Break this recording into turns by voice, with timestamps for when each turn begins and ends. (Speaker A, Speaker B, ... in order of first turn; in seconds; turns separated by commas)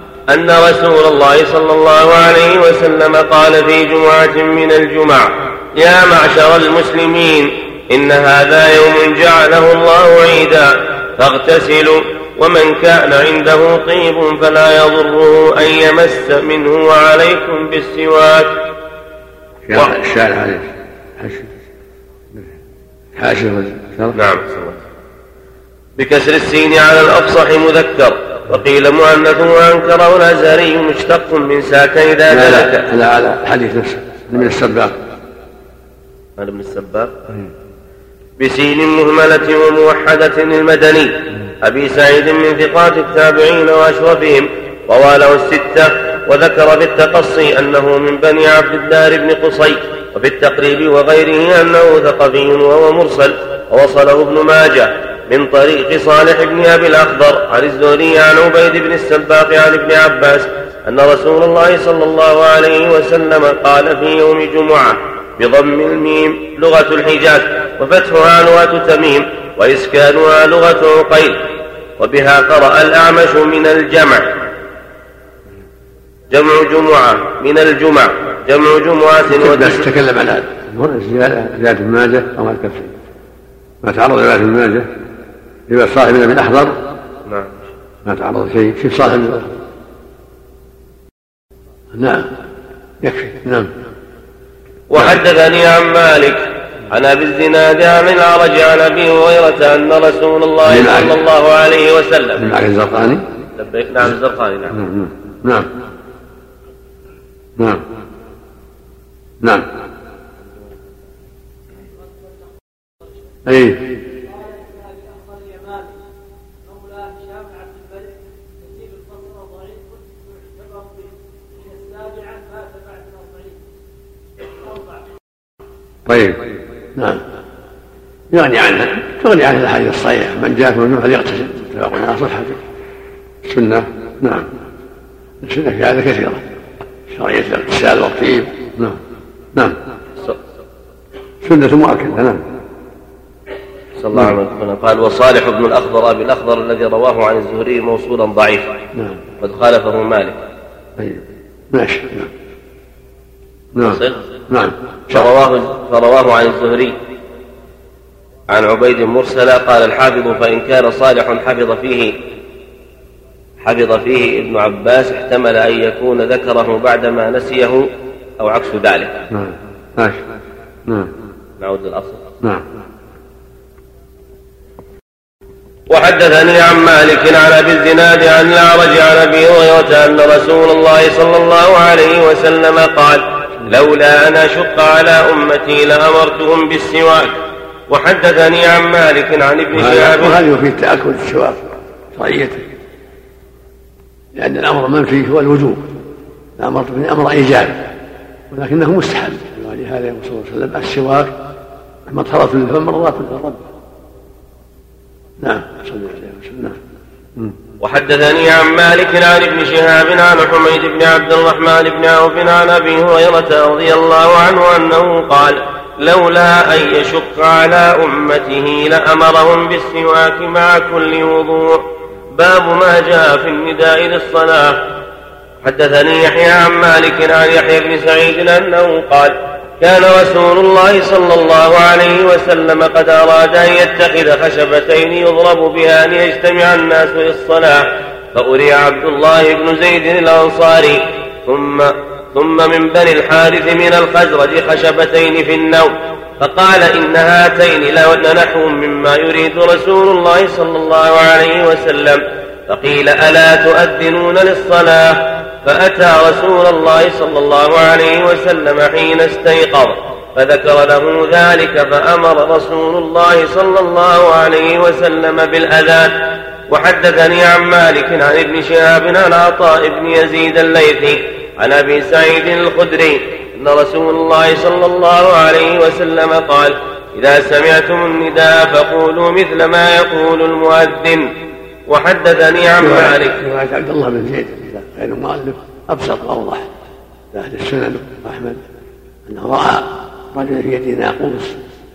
Speaker A: 0.3-18.6, Speaker B: 19.6-21.5, Speaker B: 23.1-24.2, Speaker A: 24.1-24.8, Speaker A: 26.0-32.9, Speaker B: 32.3-35.0, Speaker A: 36.4-37.2, Speaker A: 38.4-74.3, Speaker A: 76.3-79.8, Speaker B: 79.3-83.0, Speaker B: 83.8-84.9, Speaker B: 85.7-86.8, Speaker A: 87.3-87.7, Speaker B: 88.0-89.5, Speaker B: 91.9-92.3, Speaker B: 93.0-93.7, Speaker A: 94.9-102.5, Speaker B: 100.7-101.1, Speaker B: 102.4-103.2, Speaker A: 103.6-104.8, Speaker B: 104.7-105.7, Speaker B: 107.6-107.8, Speaker B: 109.4-109.7, Speaker B: 113.5-114.0, Speaker B: 126.1-127.2, Speaker B: 128.3-132.6, Speaker B: 133.4-134.5, Speaker B: 135.4-136.4, Speaker B: 137.1-139.0, Speaker B: 141.4-142.4, Speaker A: 144.0-148.8, Speaker A: 149.4-150.4, Speaker B: 151.0-152.3, Speaker B: 153.8-155.3, Speaker A: 153.8-154.2, Speaker A: 155.1-157.0, Speaker A: 158.5-162.2, Speaker A: 163.6-167.9, Speaker A: 168.4-169.2, Speaker B: 169.3-170.2, Speaker B: 170.9-171.1, Speaker A: 171.6-172.3, Speaker A: 175.9-187.4, Speaker A: 187.9-190.4, Speaker B: 189.8-191.6, Speaker B: 192.1-192.7, Speaker B: 194.4-195.9, Speaker B: 196.6-197.9, Speaker B: 198.5-201.3, Speaker B: 202.1-203.6, Speaker B: 205.4-206.8, Speaker A: 207.8-224.9, Speaker A: 225.6-281.3, Speaker A: 281.9-283.4, Speaker B: 282.8-286.7, Speaker B: 287.3-288.6, Speaker B: 289.3-291.6